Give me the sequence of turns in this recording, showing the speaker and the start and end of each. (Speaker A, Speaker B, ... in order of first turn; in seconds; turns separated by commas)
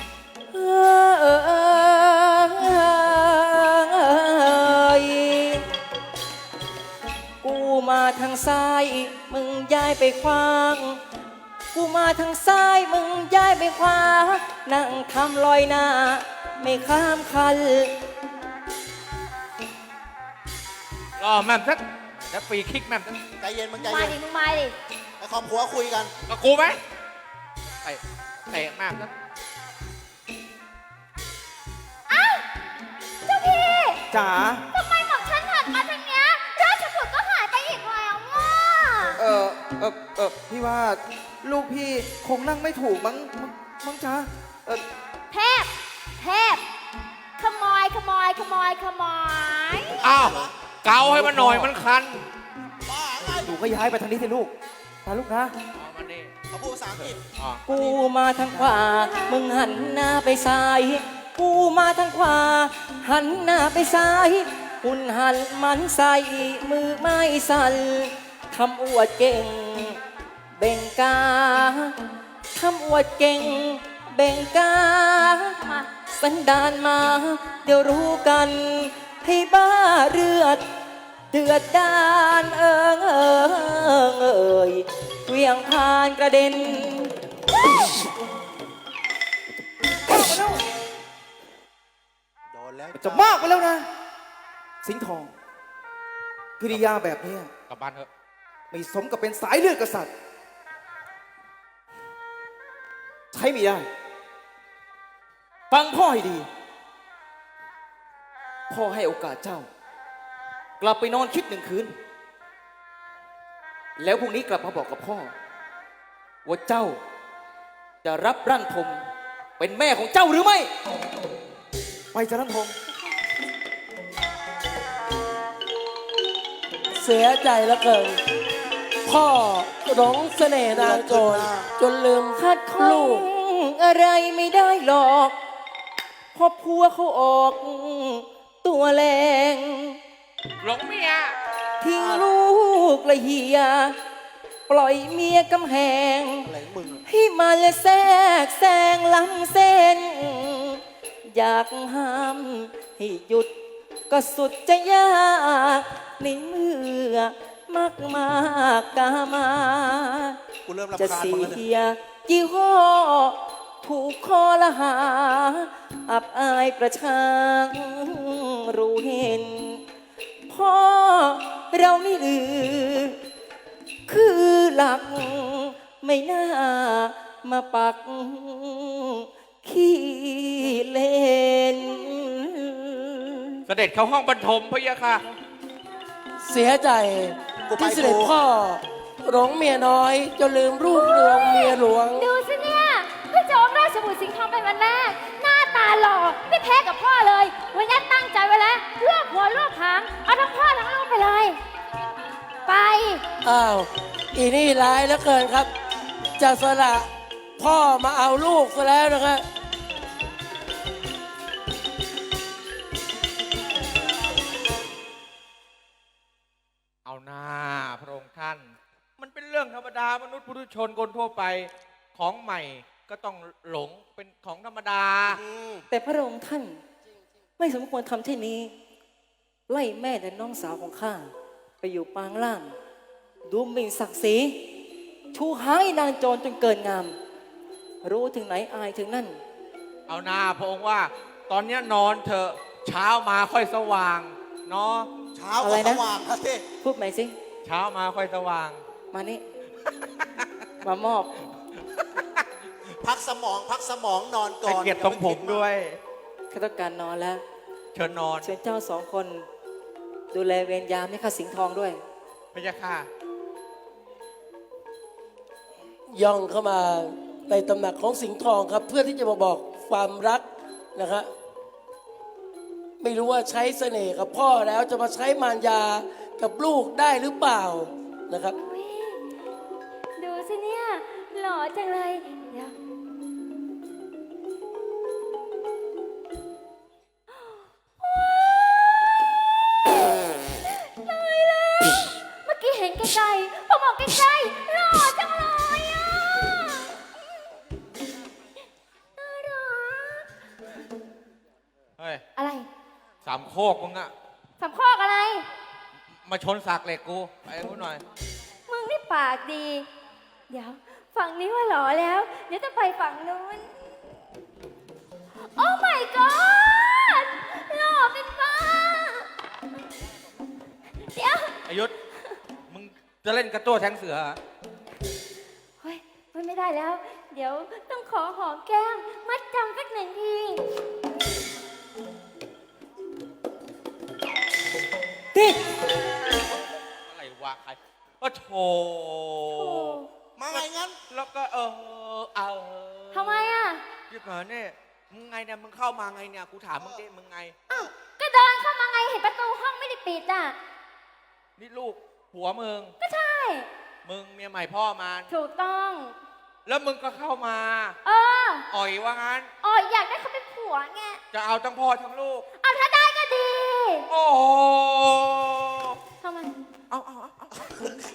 Speaker A: 0.5-5.7, Speaker A: 7.4-11.0, Speaker A: 11.7-17.9, Speaker B: 21.2-23.1, Speaker C: 23.4-24.2, Speaker D: 23.8-24.8, Speaker C: 25.2-26.1, Speaker B: 26.3-26.8, Speaker B: 27.8-29.1, Speaker D: 32.1-32.5, Speaker D: 33.2-34.0, Speaker E: 34.1-34.6, Speaker D: 34.7-39.2, Speaker E: 39.2-44.8, Speaker D: 45.3-46.6, Speaker D: 47.4-50.0, Speaker C: 50.0-50.5, Speaker B: 50.0-52.2, Speaker E: 51.0-51.7, Speaker C: 52.9-53.5, Speaker E: 53.2-54.5, Speaker E: 55.0-55.5, Speaker B: 55.7-56.3, Speaker C: 56.5-57.2, Speaker B: 57.4-57.6, Speaker A: 57.7-70.0, Speaker E: 57.7-58.0, Speaker E: 58.5-58.8, Speaker D: 59.0-59.4, Speaker A: 70.6-72.0, Speaker A: 72.5-75.5, Speaker D: 75.6-75.9, Speaker A: 76.1-80.7, Speaker A: 81.3-87.1, Speaker E: 90.0-90.6, Speaker C: 92.5-93.5, Speaker E: 92.9-93.9, Speaker E: 94.8-95.3, Speaker E: 96.6-97.5, Speaker B: 97.7-98.1, Speaker E: 98.7-100.1, Speaker E: 103.3-103.9, Speaker E: 105.7-106.5, Speaker E: 108.7-109.7, Speaker E: 110.8-112.0, Speaker E: 114.0-115.3, Speaker E: 116.5-117.0, Speaker E: 118.0-119.0, Speaker E: 119.6-120.7, Speaker E: 122.1-122.7, Speaker F: 127.0-128.2, Speaker F: 129.0-133.2, Speaker C: 130.7-131.7, Speaker A: 132.4-135.4, Speaker A: 136.3-140.0, Speaker B: 140.6-141.3, Speaker A: 141.8-144.0, Speaker C: 141.9-142.3, Speaker A: 144.7-146.5, Speaker C: 146.5-147.0, Speaker A: 147.1-153.5, Speaker A: 154.1-160.4, Speaker C: 160.7-161.6, Speaker A: 160.9-169.8, Speaker A: 170.5-173.2, Speaker A: 174.1-183.6, Speaker B: 183.7-185.2, Speaker F: 186.4-192.3, Speaker C: 187.7-188.3, Speaker D: 190.9-201.6, Speaker D: 202.7-203.2, Speaker F: 203.4-205.7, Speaker F: 206.4-209.4, Speaker B: 217.1-225.4, Speaker C: 225.3-225.8, Speaker A: 225.9-226.8, Speaker A: 227.6-228.7, Speaker A: 229.7-232.8, Speaker A: 233.5-234.6, Speaker A: 235.3-237.2, Speaker A: 238.0-239.4, Speaker B: 240.1-245.1, Speaker C: 245.3-246.7, Speaker A: 245.6-246.0, Speaker A: 246.8-247.3, Speaker B: 247.7-248.8, Speaker A: 249.1-249.4, Speaker A: 250.8-251.4, Speaker C: 253.0-255.7, Speaker B: 254.7-256.0, Speaker A: 256.5-257.4, Speaker B: 257.9-258.5, Speaker A: 258.4-259.5, Speaker A: 260.3-262.0, Speaker B: 262.5-263.1, Speaker F: 266.1-271.3, Speaker F: 273.0-278.6, Speaker D: 278.5-279.2, Speaker D: 280.2-282.7, Speaker D: 287.3-289.2, Speaker D: 290.7-297.4, Speaker D: 299.2-300.3, Speaker D: 302.4-302.7, Speaker B: 303.2-304.1, Speaker D: 304.6-305.5, Speaker B: 306.2-308.0, Speaker D: 308.7-309.9, Speaker D: 310.5-314.0, Speaker D: 315.5-319.3, Speaker D: 321.1-321.6, Speaker B: 321.7-321.9, Speaker B: 322.7-324.4, Speaker D: 325.8-330.6, Speaker A: 335.3-335.6, Speaker B: 337.1-340.0, Speaker D: 339.5-340.1, Speaker C: 340.4-341.0, Speaker B: 340.5-343.5, Speaker D: 343.1-343.8, Speaker B: 344.1-347.5, Speaker D: 347.7-350.6, Speaker B: 351.6-352.9, Speaker D: 353.0-353.7, Speaker B: 354.0-355.3, Speaker D: 355.3-356.2, Speaker B: 356.7-358.0, Speaker D: 358.0-358.6, Speaker B: 358.7-359.5, Speaker D: 359.6-361.2, Speaker B: 361.3-362.4, Speaker D: 362.6-364.1, Speaker B: 364.1-366.0, Speaker D: 366.2-366.6, Speaker B: 366.9-367.9, Speaker C: 367.6-368.0